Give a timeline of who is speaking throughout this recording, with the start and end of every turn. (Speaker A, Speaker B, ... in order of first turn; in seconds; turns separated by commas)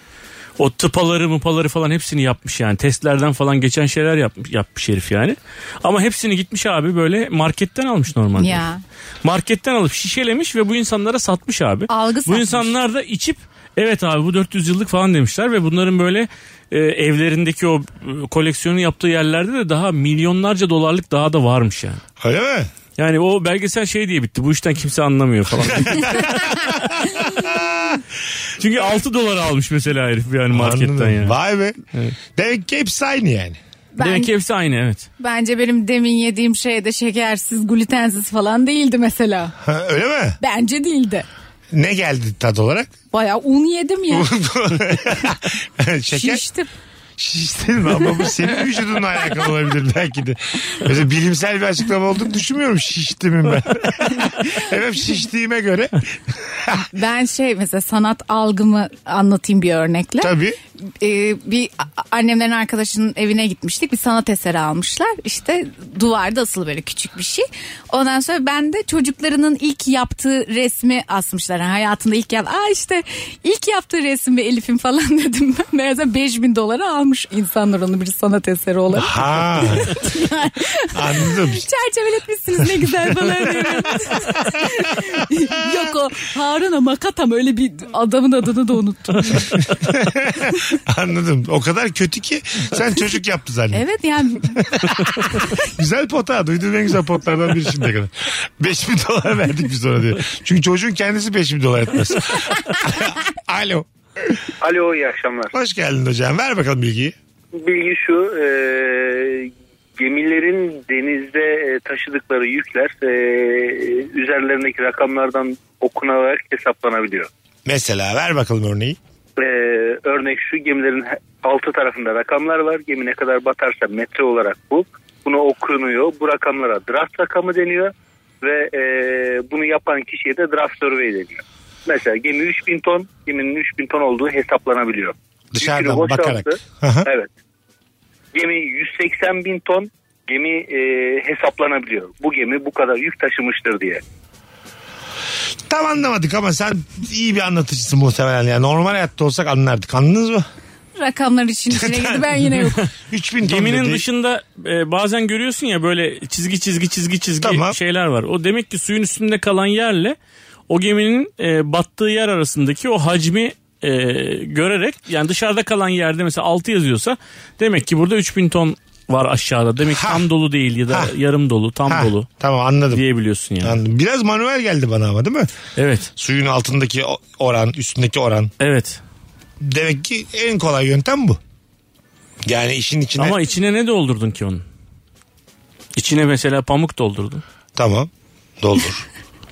Speaker A: 0.6-8.7, Speaker B: 8.4-8.8, Speaker A: 9.2-22.0, Speaker B: 11.9-12.7, Speaker C: 22.2-22.7, Speaker A: 23.0-26.3, Speaker C: 25.7-28.0, Speaker A: 28.6-31.4, Speaker C: 30.5-31.8, Speaker C: 32.4-33.6, Speaker B: 34.0-34.3, Speaker A: 34.0-35.1, Speaker B: 35.2-39.5, Speaker C: 39.6-40.4, Speaker B: 40.4-41.3, Speaker C: 41.7-42.9, Speaker B: 43.1-44.3, Speaker C: 44.1-46.4, Speaker B: 46.1-46.7, Speaker C: 47.2-56.8, Speaker B: 56.7-60.3, Speaker C: 60.2-60.6, Speaker B: 61.0-89.6, Speaker C: 79.0-79.9, Speaker C: 80.9-81.6, Speaker C: 83.2-83.8, Speaker C: 89.8-93.8, Speaker B: 93.7-94.6, Speaker C: 94.5-104.3, Speaker D: 104.6-105.5, Speaker C: 105.5-107.2, Speaker D: 107.5-117.3, Speaker C: 117.7-119.0, Speaker D: 119.4-137.3, Speaker C: 135.5-137.1, Speaker D: 138.3-144.0, Speaker C: 145.7-150.4, Speaker B: 151.0-152.8, Speaker C: 151.8-152.2, Speaker C: 153.1-154.0, Speaker A: 153.4-160.2, Speaker C: 157.4-157.8, Speaker A: 160.7-172.3, Speaker C: 169.9-170.2, Speaker C: 171.9-173.0, Speaker A: 172.9-173.8, Speaker C: 173.6-175.5, Speaker A: 175.8-176.1, Speaker C: 176.2-178.5, Speaker A: 178.6-179.0, Speaker C: 179.6-181.4, Speaker C: 182.4-183.4, Speaker A: 183.2-184.6, Speaker A: 186.0-187.4, Speaker C: 187.8-189.1